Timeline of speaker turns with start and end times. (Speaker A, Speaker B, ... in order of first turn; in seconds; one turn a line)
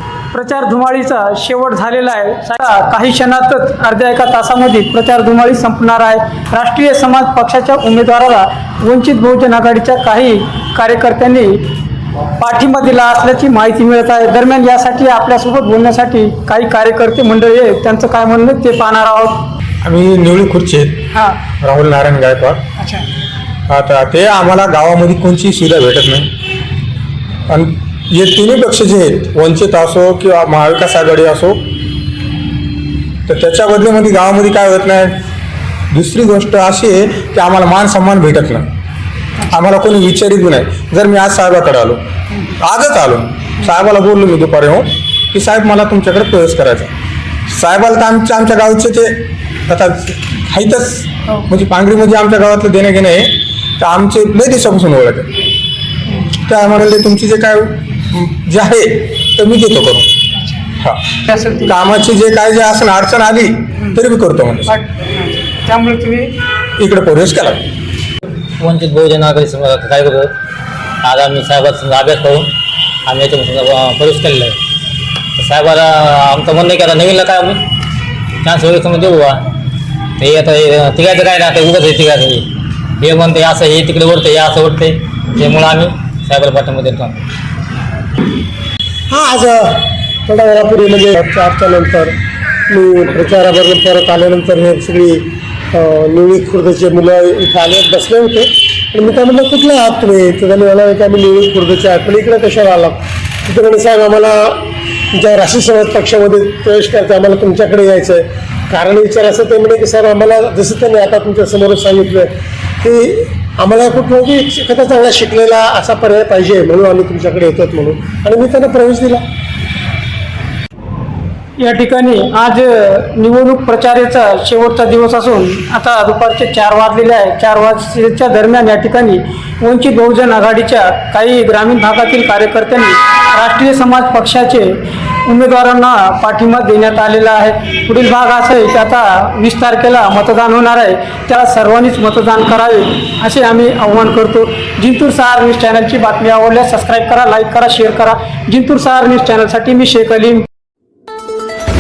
Speaker A: 0.3-11.7
Speaker A: 12.4-19.5
Speaker B: 19.8-21.1
Speaker B: 21.6-22.6
Speaker A: 22.8-23.1
Speaker B: 23.7-26.3
Speaker B: 27.5-31.6
Speaker B: 33.3-35.2
Speaker B: 35.9-38.7
Speaker B: 39.4-46.9
Speaker B: 47.5-55.3
Speaker B: 56.3-60.1
Speaker B: 60.8-64.8
Speaker A: 61.3-61.6
Speaker A: 64.7-66.3
Speaker B: 66.8-67.6
Speaker C: 68.6-70.3
Speaker C: 71.0-72.5
Speaker C: 73.1-74.6
Speaker C: 75.4-77.6
Speaker C: 78.4-79.5
Speaker C: 80.2-82.5
Speaker C: 83.0-87.2
Speaker D: 89.1-92.2
Speaker D: 92.7-119.2
Speaker A: 121.6-150.5